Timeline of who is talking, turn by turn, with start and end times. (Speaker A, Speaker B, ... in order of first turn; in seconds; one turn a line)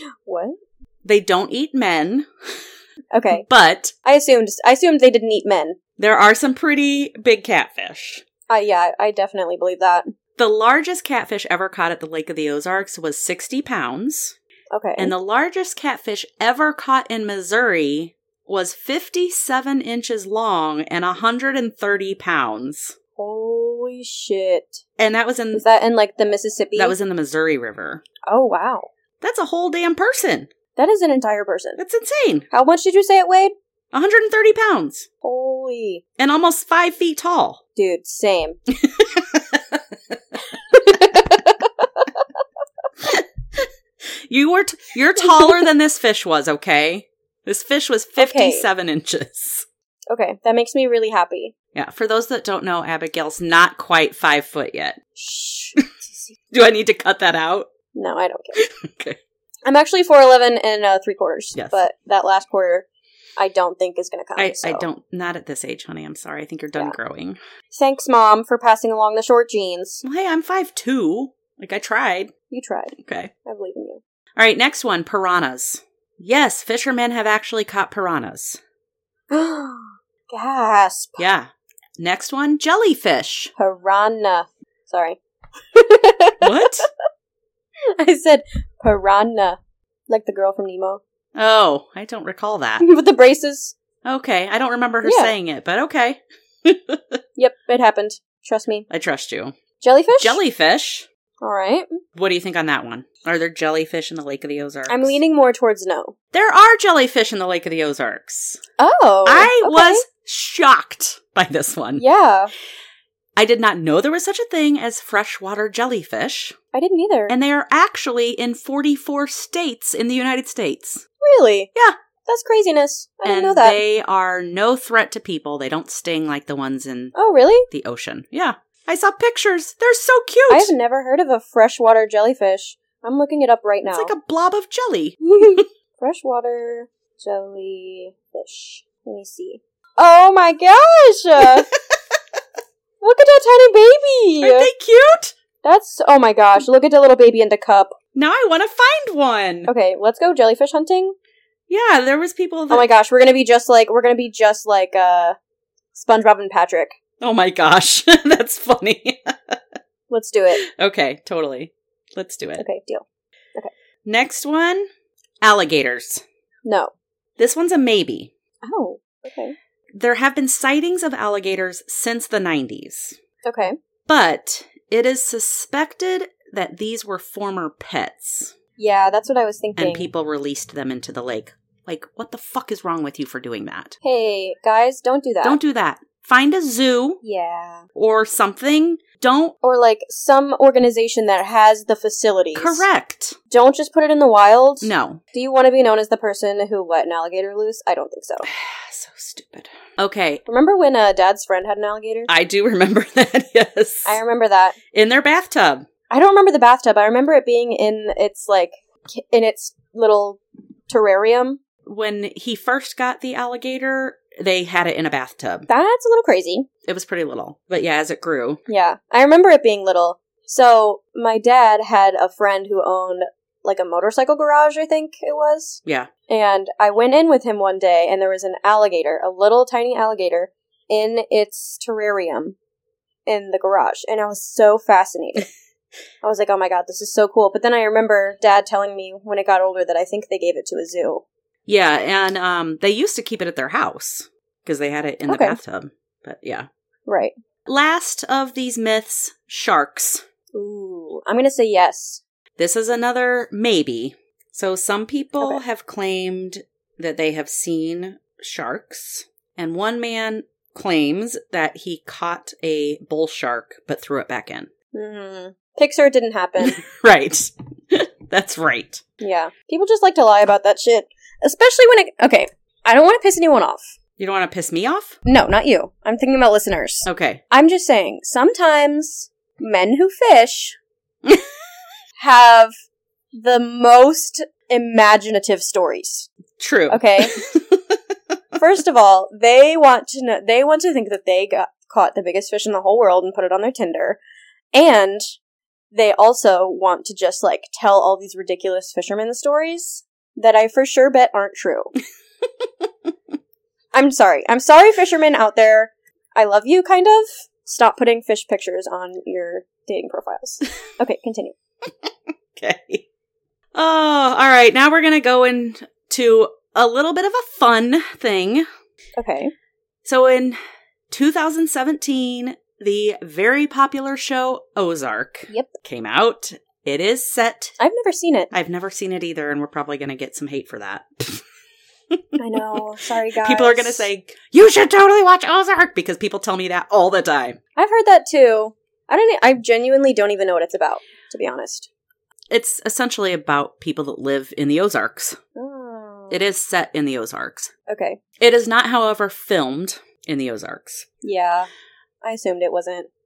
Speaker A: 0.2-0.6
Speaker B: 1.0-2.3
Speaker A: 3.1-3.4
Speaker B: 3.3-3.9
Speaker A: 4.0-5.8
Speaker B: 6.0-8.2
Speaker A: 8.5-10.1
Speaker B: 10.4-14.3
Speaker A: 14.7-15.1
Speaker B: 15.0-22.9
Speaker A: 23.2-24.8
Speaker B: 25.0-25.6
Speaker A: 25.5-26.9
Speaker B: 26.8-28.0
Speaker A: 28.2-28.9
Speaker B: 29.2-30.5
Speaker A: 30.8-31.8
Speaker B: 31.8-32.5
Speaker A: 32.5-33.5
Speaker B: 33.9-35.1
Speaker A: 35.2-36.0
Speaker B: 36.2-37.6
Speaker A: 37.8-38.6
Speaker B: 38.7-40.2
Speaker A: 40.7-42.2
Speaker B: 43.0-49.6
Speaker A: 45.4-45.6
Speaker A: 48.2-48.7
Speaker A: 50.1-51.5
Speaker B: 51.7-55.0
Speaker A: 55.1-56.3
Speaker B: 56.5-57.7
Speaker A: 57.9-58.6
Speaker B: 58.5-59.2
Speaker A: 59.6-62.9
Speaker B: 61.5-61.9
Speaker A: 63.4-64.8
Speaker B: 64.3-67.4
Speaker A: 67.7-70.0
Speaker B: 70.0-72.3
Speaker A: 72.5-74.0
Speaker B: 72.9-73.3
Speaker B: 74.4-78.6
Speaker A: 79.3-81.2
Speaker B: 81.2-83.5
Speaker A: 83.6-85.2
Speaker A: 85.7-86.9
Speaker B: 86.4-86.8
Speaker A: 88.0-91.0
Speaker B: 91.3-92.8
Speaker A: 92.8-93.7
Speaker B: 94.0-97.2
Speaker A: 95.0-95.3
Speaker A: 97.4-98.8
Speaker B: 98.9-99.5
Speaker A: 99.8-100.4
Speaker B: 100.2-101.1
Speaker A: 101.4-102.0
Speaker B: 102.1-105.2
Speaker A: 104.9-106.1
Speaker B: 106.3-108.6
Speaker A: 108.8-110.0
Speaker B: 109.2-112.0
Speaker A: 112.0-112.5
Speaker B: 113.3-116.5
Speaker A: 116.7-117.3
Speaker B: 117.3-121.0
Speaker A: 121.2-121.7
Speaker A: 122.2-123.8
Speaker B: 123.2-127.1
Speaker A: 127.1-127.7
Speaker B: 127.7-130.7
Speaker A: 130.5-134.1
Speaker B: 133.8-135.6
Speaker A: 135.2-141.7
Speaker B: 141.4-142.2
Speaker A: 143.0-144.7
Speaker B: 144.4-145.3
Speaker A: 145.6-147.9
Speaker B: 148.1-149.7
Speaker A: 149.7-151.1
Speaker B: 151.7-152.8
Speaker A: 152.7-155.3
Speaker A: 155.9-156.9
Speaker B: 157.2-159.6
Speaker A: 160.1-160.6
Speaker B: 160.5-162.6
Speaker A: 162.6-163.0
Speaker B: 164.0-164.9
Speaker B: 165.4-166.2
Speaker A: 166.7-166.9
Speaker B: 167.4-168.3
Speaker A: 168.6-169.5
Speaker B: 169.9-173.2
Speaker A: 173.4-173.7
Speaker B: 174.1-178.5
Speaker A: 178.8-180.1
Speaker B: 179.8-184.0
Speaker A: 184.0-185.6
Speaker B: 185.4-187.2
Speaker A: 187.2-187.9
Speaker B: 187.9-189.5
Speaker A: 189.6-192.8
Speaker B: 192.5-193.4
Speaker A: 193.5-198.5
Speaker B: 194.8-195.2
Speaker B: 198.4-200.4
Speaker A: 200.4-202.3
Speaker B: 202.3-204.2
Speaker A: 204.1-204.8
Speaker B: 204.9-205.9
Speaker A: 206.1-211.6
Speaker B: 211.8-215.7
Speaker A: 215.7-216.7
Speaker B: 216.8-218.6
Speaker A: 218.7-232.6
Speaker A: 233.2-235.5
Speaker A: 236.2-241.2
Speaker B: 241.7-246.7
Speaker A: 245.3-245.6
Speaker A: 247.1-247.3
Speaker B: 247.7-250.2
Speaker A: 250.5-252.2
Speaker B: 252.6-264.7
Speaker A: 264.9-266.8
Speaker B: 266.6-269.0
Speaker A: 269.2-273.9
Speaker B: 274.2-275.2
Speaker A: 275.2-280.8
Speaker B: 277.1-277.4
Speaker A: 282.2-282.7
Speaker A: 283.3-286.3
Speaker B: 286.6-288.0
Speaker A: 286.9-287.4
Speaker A: 288.6-294.2
Speaker A: 294.7-295.4
Speaker A: 295.9-301.9
Speaker B: 302.6-302.9
Speaker A: 303.9-311.5
Speaker B: 311.9-313.1
Speaker B: 313.7-318.6
Speaker A: 319.2-319.5
Speaker B: 320.0-320.6
Speaker B: 321.1-327.8
Speaker A: 327.8-328.5
Speaker B: 328.5-331.4
Speaker B: 332.1-332.8
Speaker A: 332.4-334.1
Speaker B: 333.4-337.6
Speaker A: 337.8-341.9
Speaker B: 342.5-345.4
Speaker A: 345.6-346.4
Speaker B: 346.3-347.7
Speaker A: 347.9-348.2
Speaker B: 348.4-351.1
Speaker A: 351.2-351.7
Speaker A: 352.2-353.1